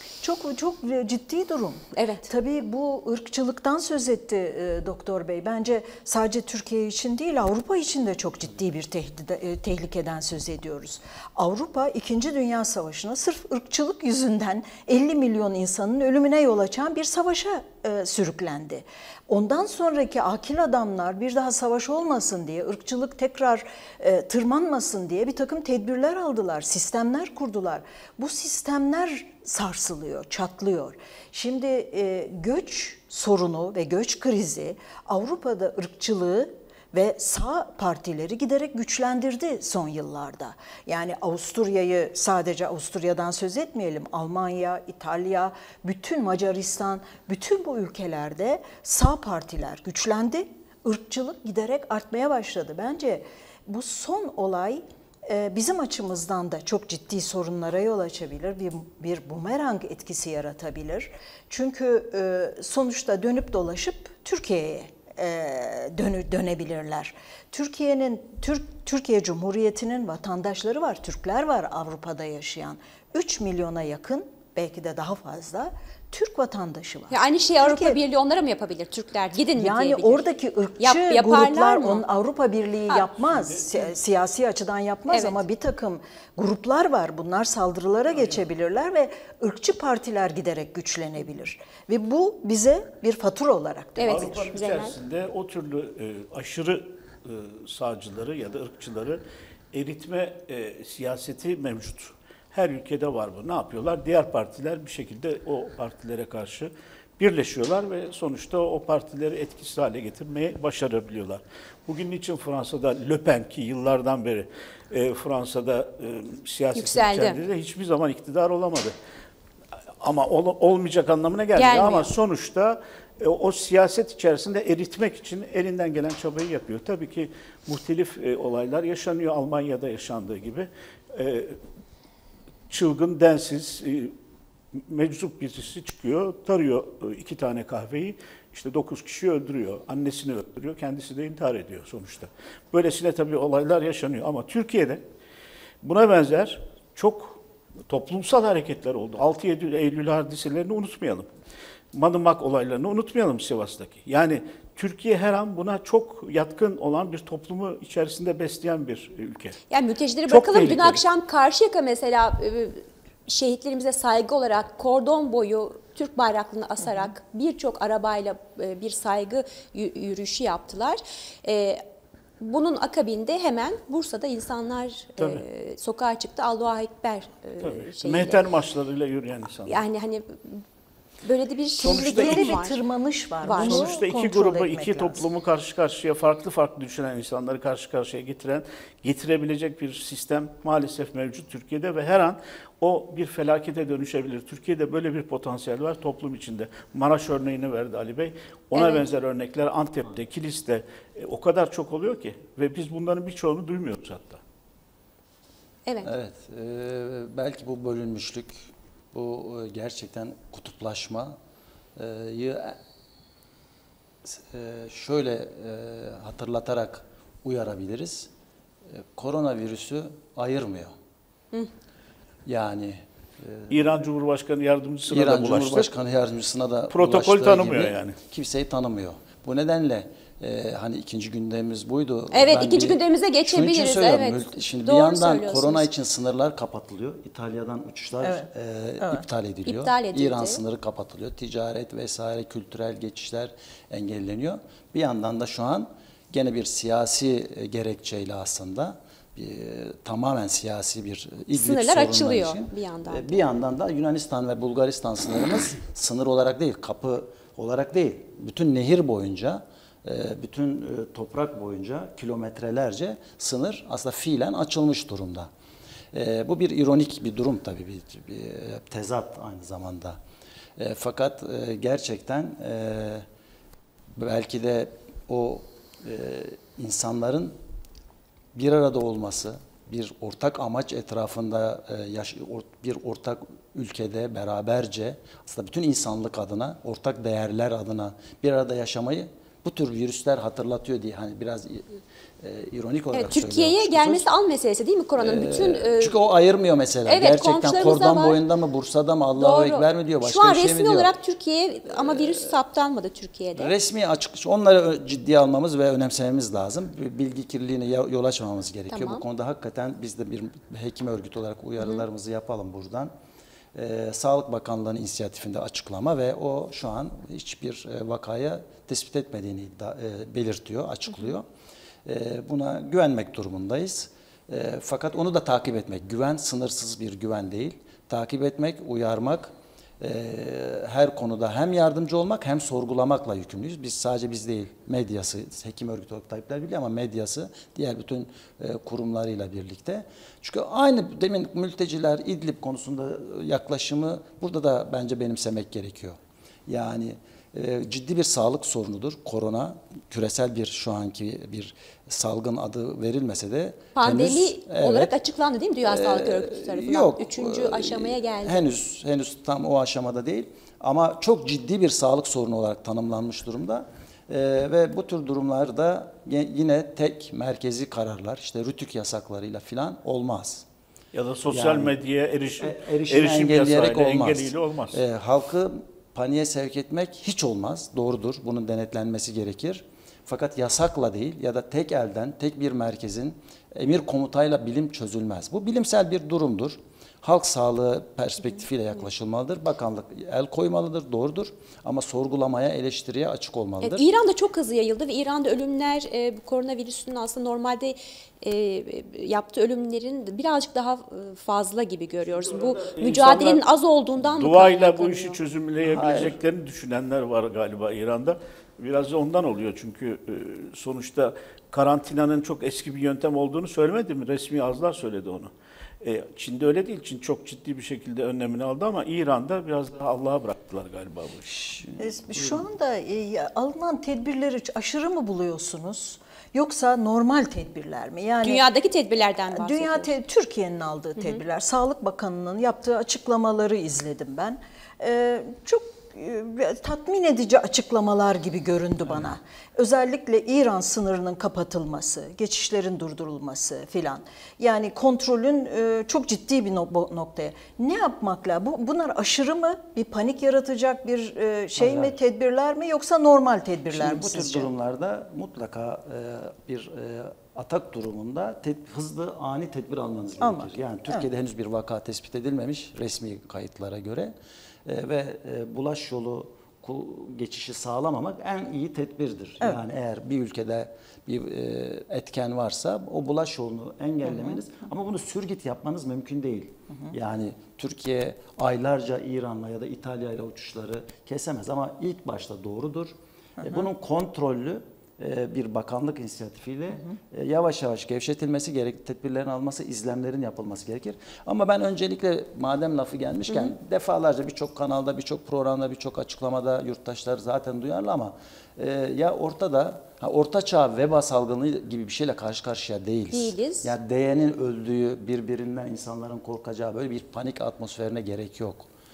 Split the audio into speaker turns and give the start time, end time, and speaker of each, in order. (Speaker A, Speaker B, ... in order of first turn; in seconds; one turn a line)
Speaker A: 0.2-78.0
Speaker B: 1.9-2.3
Speaker B: 77.1-82.0
Speaker A: 79.5-94.5
Speaker C: 83.2-83.9
Speaker B: 85.1-85.4
Speaker C: 88.1-88.4
Speaker B: 94.0-94.9
Speaker C: 94.1-99.2
Speaker C: 99.7-118.9
Speaker B: 116.7-117.4
Speaker C: 120.0-131.6
Speaker B: 121.5-122.1
Speaker C: 132.7-134.1
Speaker C: 134.7-145.0
Speaker C: 145.8-151.3
Speaker C: 151.9-159.6
Speaker B: 159.7-171.8
Speaker C: 160.2-161.0
Speaker B: 172.4-178.4
Speaker C: 177.6-179.8
Speaker B: 179.7-180.6
Speaker B: 181.2-182.8
Speaker A: 181.8-185.2
Speaker C: 181.8-182.6
Speaker B: 183.4-183.9
Speaker C: 183.5-204.4
Speaker B: 198.7-199.0
Speaker B: 205.8-206.1
Speaker D: 206.0-211.4
Speaker D: 211.9-212.8
Speaker D: 214.2-218.3
Speaker D: 218.9-220.9
Speaker D: 222.4-223.9
Speaker C: 223.7-225.9
Speaker D: 225.1-265.5
Speaker C: 226.9-228.2
Speaker B: 232.3-235.9
Speaker A: 238.2-238.5
Speaker B: 239.7-240.6
Speaker B: 251.5-253.4
Speaker D: 266.1-270.2
Speaker D: 270.8-273.2
Speaker D: 274.1-277.5
Speaker D: 278.5-294.3
Speaker B: 293.1-296.1
Speaker D: 295.2-301.1
Speaker B: 297.1-298.4
Speaker B: 299.4-303.7
Speaker D: 301.9-302.5
Speaker D: 303.6-313.1
Speaker B: 308.9-309.2
Speaker D: 313.7-321.4
Speaker D: 322.0-355.1
Speaker B: 353.9-358.6
Speaker D: 355.9-370.6
Speaker C: 371.1-375.0
Speaker D: 371.5-371.9
Speaker D: 372.6-394.1
Speaker B: 393.8-405.4
Speaker C: 402.2-403.6
Speaker C: 404.2-421.6
Speaker D: 405.8-406.4
Speaker D: 421.4-422.6
Speaker A: 422.0-428.6
Speaker B: 428.4-430.1
Speaker A: 429.5-454.7
Speaker D: 451.8-452.2
Speaker D: 453.9-464.3
Speaker A: 460.4-461.2
Speaker D: 464.9-508.9
Speaker A: 474.2-474.6
Speaker A: 483.6-483.9
Speaker B: 503.3-503.9